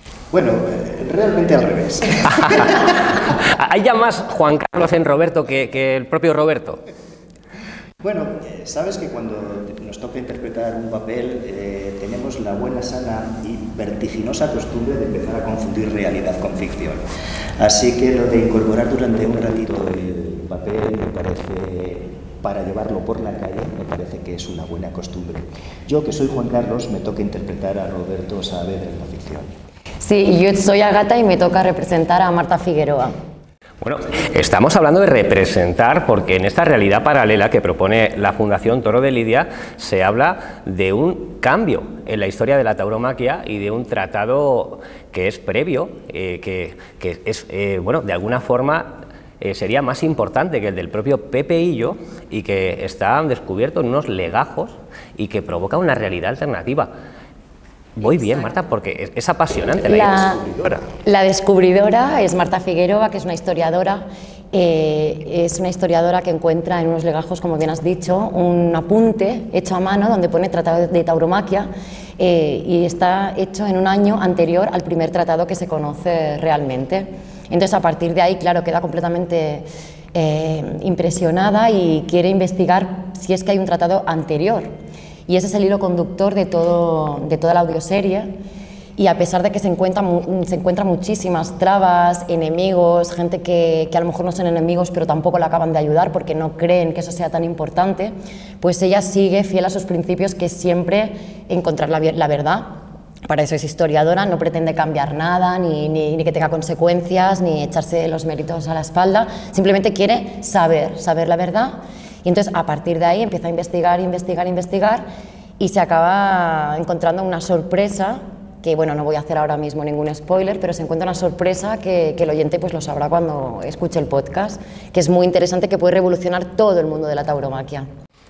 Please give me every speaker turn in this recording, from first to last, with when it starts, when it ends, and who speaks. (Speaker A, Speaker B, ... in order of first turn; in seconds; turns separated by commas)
Speaker A: 0.3-2.7, Speaker B: 2.3-6.8, Speaker A: 8.0-17.0, Speaker A: 17.6-29.5, Speaker C: 30.0-33.1, Speaker B: 33.8-56.9, Speaker B: 58.0-60.9, Speaker C: 59.9-60.4, Speaker C: 61.0-84.7, Speaker C: 85.3-88.3, Speaker C: 89.0-102.7, Speaker C: 103.3-115.0, Speaker C: 115.6-127.9